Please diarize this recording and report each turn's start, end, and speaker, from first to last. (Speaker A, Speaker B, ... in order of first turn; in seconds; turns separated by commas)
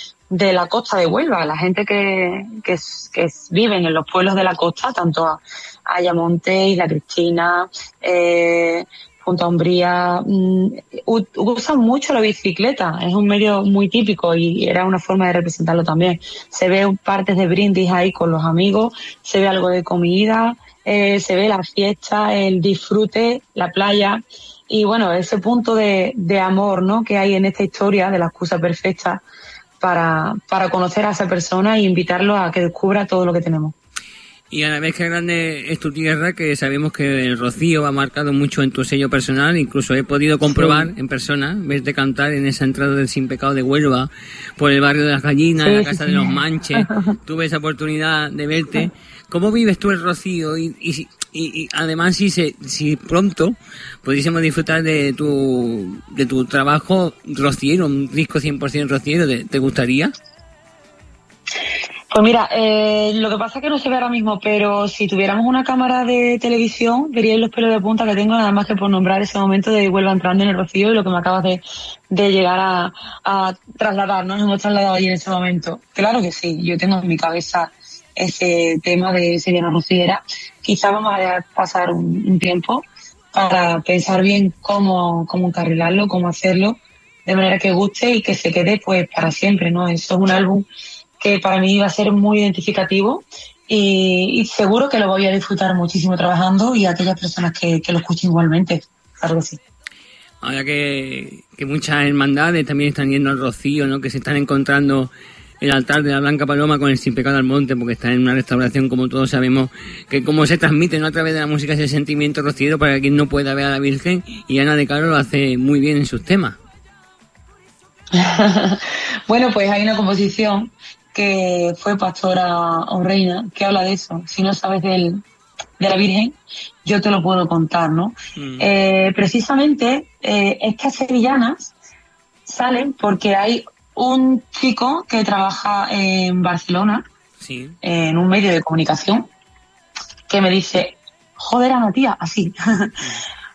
Speaker A: 0.3-29.2, Speaker A: 29.8-33.8, Speaker B: 34.5-60.1, Speaker A: 40.5-40.9, Speaker A: 45.6-47.0, Speaker A: 62.1-90.7, Speaker A: 91.2-99.6, Speaker B: 100.4-116.6, Speaker A: 118.1-125.2, Speaker A: 125.8-131.7, Speaker B: 128.4-128.7, Speaker A: 132.5-137.0, Speaker B: 137.4-137.8, Speaker A: 137.8-139.3, Speaker A: 140.3-142.9